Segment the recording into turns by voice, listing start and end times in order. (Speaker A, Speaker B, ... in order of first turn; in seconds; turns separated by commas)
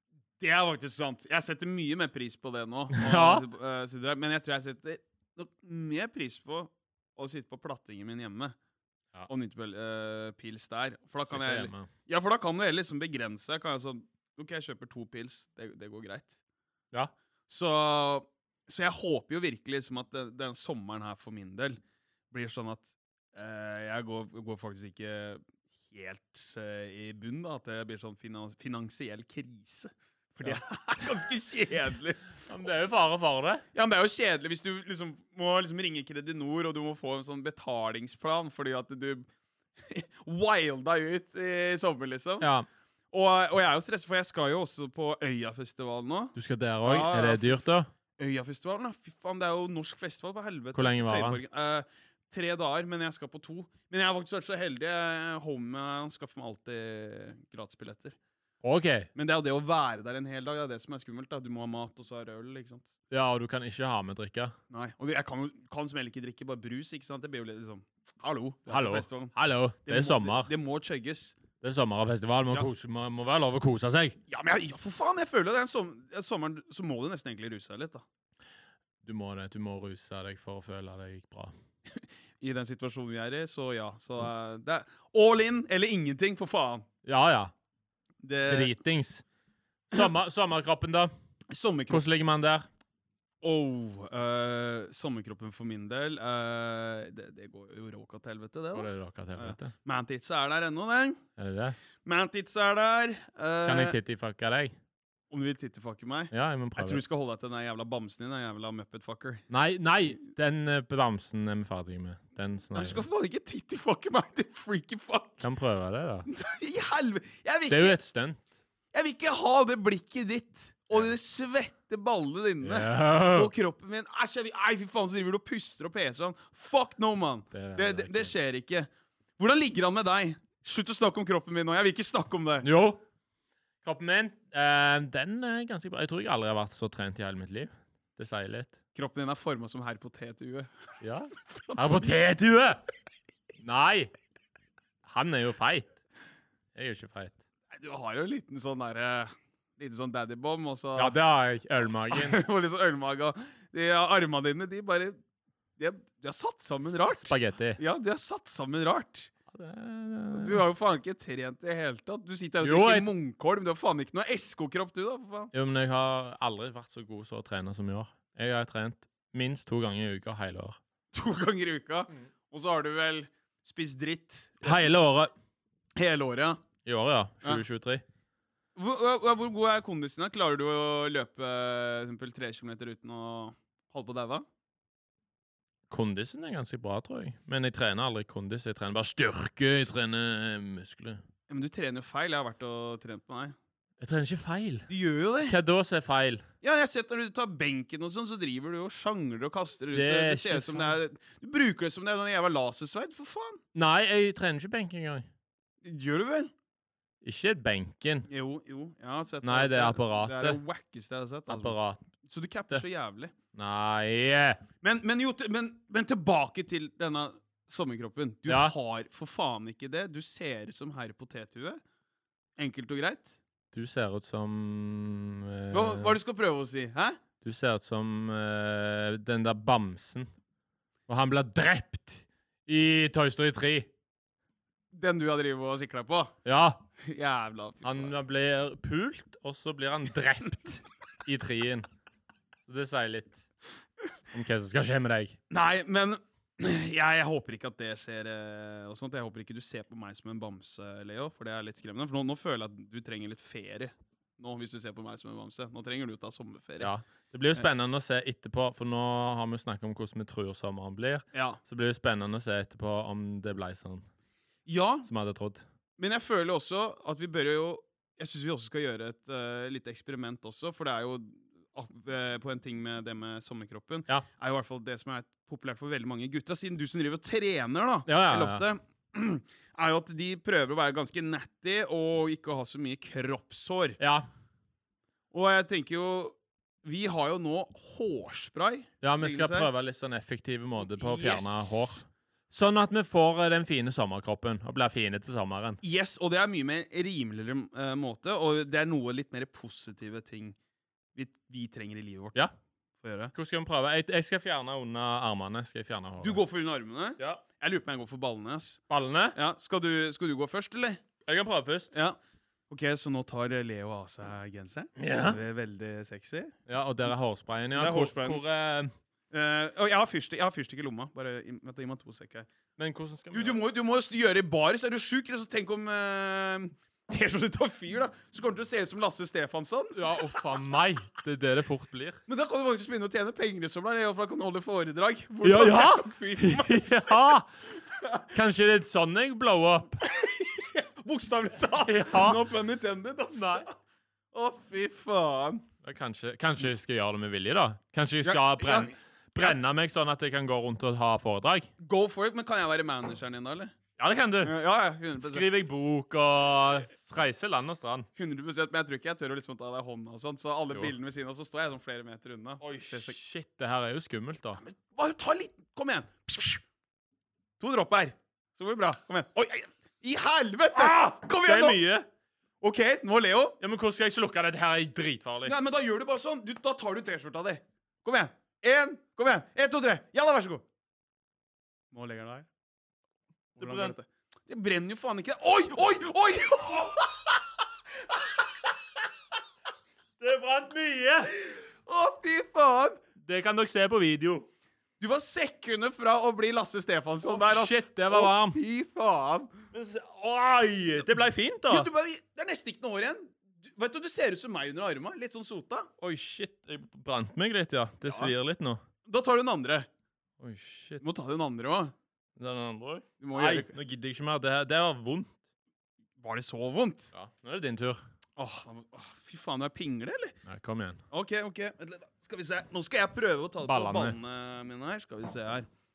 Speaker A: 0.4-8.6, Speaker B: 2.9-3.5, Speaker A: 9.3-16.4, Speaker B: 11.2-11.9, Speaker A: 17.5-21.8, Speaker A: 22.3-32.3, Speaker B: 32.4-33.7, Speaker A: 33.7-39.3, Speaker A: 39.8-42.5, Speaker B: 42.4-42.7, Speaker A: 43.1-47.6, Speaker B: 46.4-47.9, Speaker A: 48.2-58.2, Speaker B: 50.8-51.4, Speaker B: 58.6-59.1, Speaker A: 59.1-62.9, Speaker B: 63.1-64.5, Speaker A: 64.7-69.3, Speaker B: 68.7-70.5, Speaker A: 69.9-71.4, Speaker B: 71.6-74.2, Speaker A: 74.3-78.0, Speaker B: 79.0-81.5, Speaker A: 81.9-86.9, Speaker B: 87.0-87.5, Speaker A: 88.2-88.7, Speaker B: 88.5-89.2, Speaker B: 89.9-91.1, Speaker A: 91.5-92.0, Speaker B: 91.9-92.7, Speaker A: 93.4-101.2, Speaker B: 98.7-99.8, Speaker B: 101.4-101.8, Speaker A: 102.0-104.0, Speaker B: 103.7-104.8, Speaker A: 105.3-109.4, Speaker B: 106.3-107.0, Speaker B: 109.5-113.0, Speaker A: 112.7-115.5, Speaker B: 115.4-116.3, Speaker A: 116.3-118.0, Speaker B: 117.7-118.5, Speaker A: 118.9-132.7, Speaker B: 122.6-123.5, Speaker B: 127.5-128.3, Speaker B: 132.6-133.0, Speaker B: 133.8-138.8, Speaker A: 138.9-140.7, Speaker B: 141.0-142.8, Speaker A: 141.5-142.4, Speaker B: 143.6-144.1, Speaker B: 145.1-146.0, Speaker B: 146.8-147.4, Speaker A: 147.7-151.2, Speaker B: 151.0-152.4, Speaker A: 152.1-155.2, Speaker A: 155.8-159.3, Speaker B: 156.8-157.8, Speaker B: 159.5-160.7, Speaker A: 160.3-165.5, Speaker B: 162.6-163.1, Speaker B: 165.5-170.8, Speaker A: 171.1-174.9, Speaker B: 174.6-175.3, Speaker A: 176.0-176.6, Speaker B: 176.8-178.0, Speaker A: 178.8-184.4, Speaker B: 185.9-191.2, Speaker A: 191.5-193.6, Speaker B: 194.0-194.9, Speaker A: 194.9-195.6, Speaker B: 195.4-196.4, Speaker A: 196.6-203.6, Speaker B: 199.9-201.0, Speaker B: 203.8-205.3, Speaker A: 205.8-206.5, Speaker B: 207.2-208.3, Speaker A: 208.3-213.3, Speaker B: 209.4-210.6, Speaker B: 211.5-212.0, Speaker B: 213.5-214.6, Speaker A: 214.8-221.8, Speaker B: 218.5-218.8, Speaker A: 222.6-223.4, Speaker B: 223.7-226.2, Speaker A: 225.7-227.2, Speaker B: 227.4-230.3, Speaker B: 231.1-233.9, Speaker A: 234.9-236.3, Speaker B: 236.4-236.8, Speaker A: 237.0-238.2, Speaker B: 237.8-241.9, Speaker B: 242.7-243.5, Speaker B: 244.3-245.4, Speaker A: 245.5-256.9, Speaker B: 256.8-264.1, Speaker A: 261.3-261.6, Speaker A: 264.7-265.1, Speaker B: 265.1-265.6, Speaker A: 266.0-284.0, Speaker B: 278.1-278.7, Speaker B: 284.0-284.3, Speaker A: 285.3-289.7, Speaker B: 289.0-295.8, Speaker A: 290.8-292.0, Speaker A: 295.8-300.6, Speaker A: 301.1-302.4, Speaker A: 303.0-303.3, Speaker B: 303.3-306.4, Speaker A: 306.2-308.8, Speaker B: 308.9-309.4, Speaker A: 309.4-311.0, Speaker B: 311.3-312.0, Speaker A: 311.9-312.2, Speaker A: 312.7-316.6, Speaker B: 315.0-315.4, Speaker B: 316.7-318.9, Speaker A: 317.8-318.4, Speaker A: 319.3-322.5, Speaker B: 322.8-323.6, Speaker A: 323.3-330.0, Speaker B: 330.0-332.2, Speaker A: 332.3-337.4, Speaker B: 335.4-337.5, Speaker A: 337.9-338.3, Speaker B: 338.3-340.0, Speaker A: 340.0-343.8, Speaker B: 341.8-342.4, Speaker B: 343.4-343.7, Speaker A: 344.3-345.6, Speaker B: 345.8-351.7, Speaker A: 348.2-349.6, Speaker A: 351.8-353.7, Speaker B: 354.0-354.6, Speaker A: 354.4-355.4, Speaker B: 355.2-358.1, Speaker A: 358.2-363.2, Speaker B: 362.6-364.6, Speaker A: 364.6-366.6, Speaker A: 367.6-371.8, Speaker B: 370.7-372.1, Speaker A: 372.6-373.6, Speaker B: 373.6-375.6, Speaker A: 375.4-380.6, Speaker A: 381.9-382.5, Speaker A: 383.6-388.8, Speaker B: 383.6-383.9, Speaker B: 390.2-391.4, Speaker A: 391.4-393.0, Speaker B: 393.2-394.5, Speaker A: 395.0-399.5, Speaker B: 397.2-398.6, Speaker B: 399.7-401.9, Speaker A: 401.7-405.9, Speaker B: 406.0-408.8, Speaker A: 408.0-408.3, Speaker A: 409.1-409.9, Speaker B: 410.4-411.0, Speaker A: 411.0-411.9, Speaker B: 412.4-415.4, Speaker A: 413.2-413.8, Speaker A: 416.2-417.1, Speaker B: 417.1-418.0, Speaker A: 418.4-420.4, Speaker B: 420.5-421.0, Speaker A: 421.1-425.7, Speaker B: 423.6-424.2